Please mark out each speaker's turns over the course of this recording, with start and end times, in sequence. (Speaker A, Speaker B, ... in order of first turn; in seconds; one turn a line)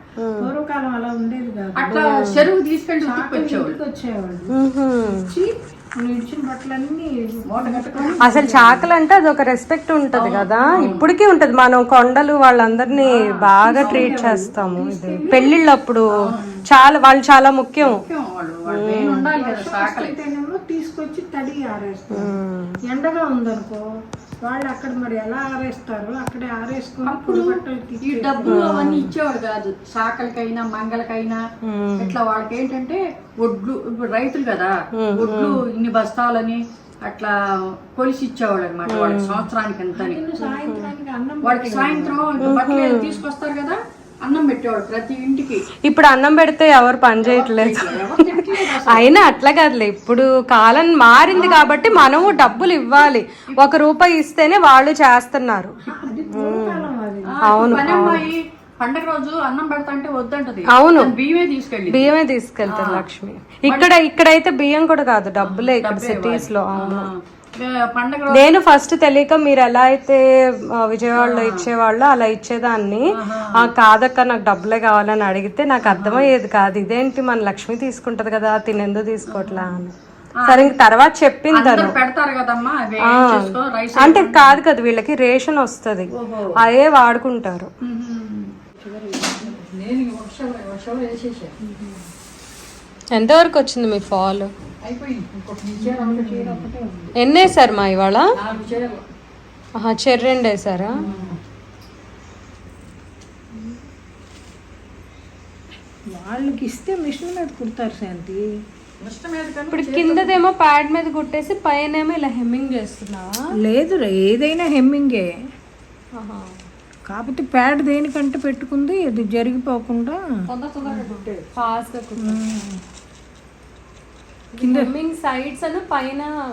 Speaker A: 0.2-0.5
Speaker B: 0.4-2.1
Speaker C: 1.8-3.8
Speaker A: 2.1-2.4
Speaker B: 3.0-4.5
Speaker A: 4.5-5.3
Speaker B: 5.1-5.5
Speaker B: 6.0-8.9
Speaker C: 7.5-8.5
Speaker A: 8.2-18.0
Speaker C: 10.1-11.1
Speaker C: 13.0-14.2
Speaker B: 13.6-15.5
Speaker C: 17.8-20.1
Speaker A: 18.7-19.2
Speaker B: 19.4-22.3
Speaker A: 22.1-22.8
Speaker B: 22.9-23.8
Speaker B: 24.4-28.7
Speaker C: 27.1-31.4
Speaker A: 28.5-29.1
Speaker A: 31.6-32.1
Speaker C: 32.0-37.3
Speaker A: 35.0-35.5
Speaker C: 37.9-40.2
Speaker A: 38.9-39.5
Speaker B: 40.0-42.5
Speaker A: 40.4-40.9
Speaker C: 41.4-45.6
Speaker A: 42.4-43.2
Speaker A: 45.9-55.8
Speaker C: 47.2-49.2
Speaker C: 51.3-53.7
Speaker B: 55.9-58.2
Speaker A: 56.3-56.9
Speaker C: 57.4-62.1
Speaker A: 57.4-58.3
Speaker A: 60.7-61.1
Speaker A: 61.9-67.1
Speaker C: 62.6-63.0
Speaker C: 65.4-68.5
Speaker A: 68.3-70.2
Speaker A: 70.8-73.0
Speaker C: 71.1-71.7
Speaker C: 73.1-73.7
Speaker A: 73.5-79.9
Speaker C: 75.8-76.3
Speaker C: 79.3-79.8
Speaker C: 80.5-80.8
Speaker A: 80.5-82.0
Speaker C: 81.5-84.6
Speaker A: 83.1-87.7
Speaker C: 86.1-86.5
Speaker C: 87.9-88.5
Speaker B: 88.8-89.5
Speaker C: 89.3-91.5
Speaker B: 91.6-92.0
Speaker A: 93.1-94.5
Speaker C: 94.8-96.7
Speaker B: 95.8-97.1
Speaker A: 97.2-98.2
Speaker C: 98.3-99.0
Speaker A: 99.8-101.0
Speaker C: 101.0-101.3
Speaker B: 106.1-108.4
Speaker C: 109.0-110.4
Speaker A: 109.7-113.3
Speaker B: 113.6-115.3
Speaker A: 116.2-116.5
Speaker B: 117.1-120.2
Speaker C: 120.5-121.4
Speaker A: 120.9-122.4
Speaker B: 122.2-122.8
Speaker A: 124.6-126.3
Speaker B: 124.6-124.9